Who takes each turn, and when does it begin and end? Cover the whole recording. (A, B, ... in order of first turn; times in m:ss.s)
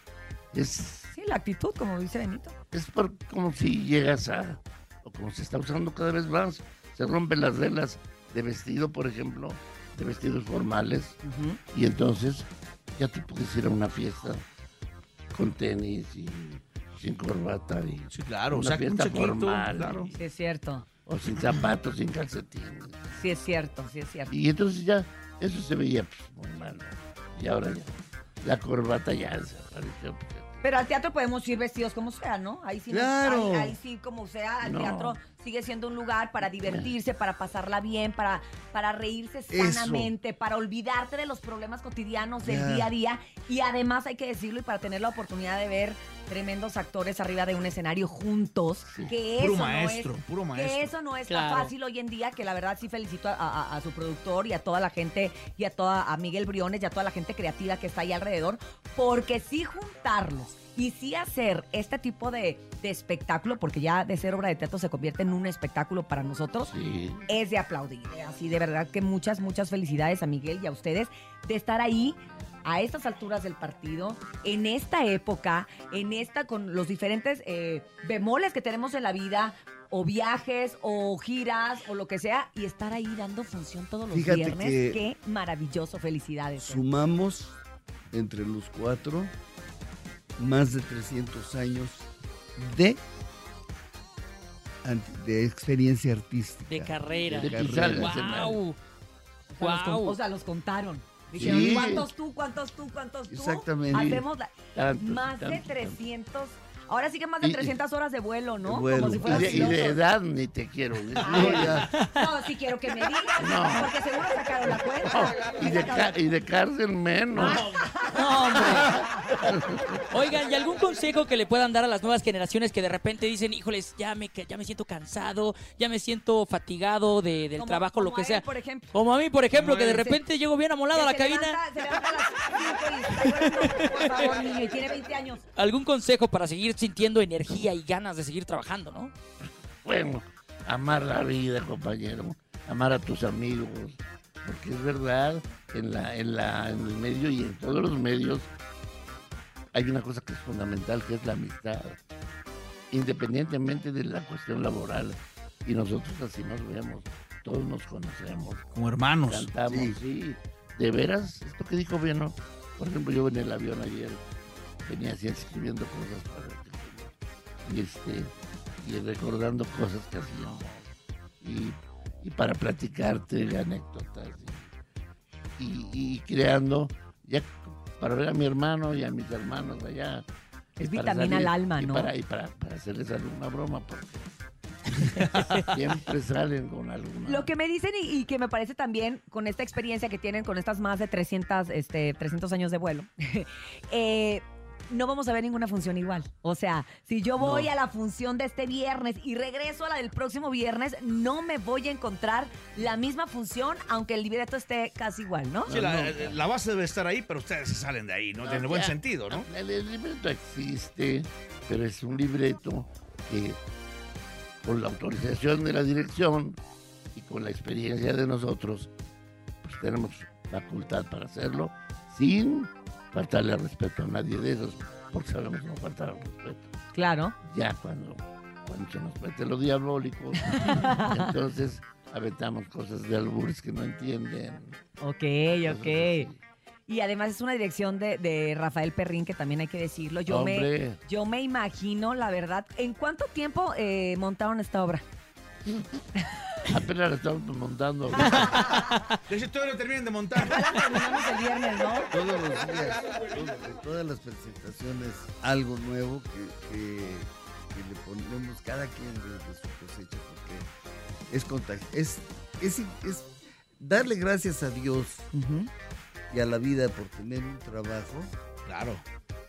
0:00.5-0:01.1 A
0:01.1-0:02.5 B
0:02.7-0:11.2 A
0:11.2-0:11.6 B
0:11.7-0:14.4 A
0:15.3-0:20.1 A
0:18.1-0:20.2 C
0:20.2-0:20.8 B
0:21.1-0:23.2 A
0:23.1-0:24.3 B
0:24.3-0:30.6 A
0:30.6-1:06.7 B
0:32.9-0:33.8 D
0:34.6-0:35.2 A
0:36.6-0:36.9 A
0:39.5-0:40.1 D
0:42.4-0:42.9 D
0:48.9-0:49.2 A
0:49.3-0:50.9 C
0:51.3-0:51.7 E
1:06.6-1:07.3 A
1:07.3-1:26.8 B
1:24.1-1:25.0 D
1:26.6-1:27.6 D
1:28.1-1:29.3 D
1:30.4-1:33.0 D
1:34.8-1:38.4 D
1:36.7-1:38.8 E
1:37.3-1:38.6 A
1:39.5-1:50.0 B
1:39.6-1:40.1 E
1:41.3-1:41.9 D
1:41.3-1:42.1 A
1:43.3-1:44.2 D
1:43.9-1:46.0 A
1:47.4-1:47.7 A
1:48.6-1:49.8 D
1:49.0-1:51.8 A
1:51.2-1:56.2 B
1:51.2-1:51.9 D
1:51.9-1:52.2 E
1:53.4-1:53.9 A
1:55.0-1:57.6 A
1:57.4-1:59.1 B
1:57.4-1:57.9 C
1:58.1-1:58.9 E
1:58.6-2:00.0 A
2:00.1-2:11.6 E
2:07.6-2:08.9 B
2:09.5-2:10.3 B
2:10.9-2:15.4 B
2:13.2-2:14.4 E
2:15.6-2:19.1 E
2:19.4-2:28.5 A
2:29.7-2:32.0 A
2:32.9-2:38.6 A
2:38.7-2:39.5 C
2:39.3-2:44.2 A
2:39.7-2:40.0 D
2:44.8-2:47.1 A
2:47.6-2:50.9 A
2:51.4-2:54.7 A
2:55.6-3:00.3 A
3:00.8-3:02.1 B
3:00.8-3:04.3 A
3:05.2-3:05.6 C
3:05.6-3:07.5 A
3:07.2-3:25.7 B
3:17.4-3:17.7 C
3:25.7-3:26.4 A
3:25.7-3:29.5 C
3:28.4-3:33.6 A
3:34.6-3:36.6 A
3:37.1-3:38.9 A
3:39.6-3:46.7 A
3:46.9-3:47.3 B
3:47.4-3:54.8 A
3:50.4-3:51.3 B
3:55.0-3:56.3 B
3:55.5-3:56.4 A
3:56.9-4:05.0 B
4:00.3-4:01.0 A
4:06.2-4:06.7 B
4:06.7-4:08.8 A
4:08.2-4:08.9 B
4:09.3-4:10.8 C
4:10.4-4:12.1 B
4:12.1-4:20.7 D
4:21.3-4:25.3 D
4:25.3-4:25.7 B
4:26.3-4:28.3 D
4:28.6-4:29.0 C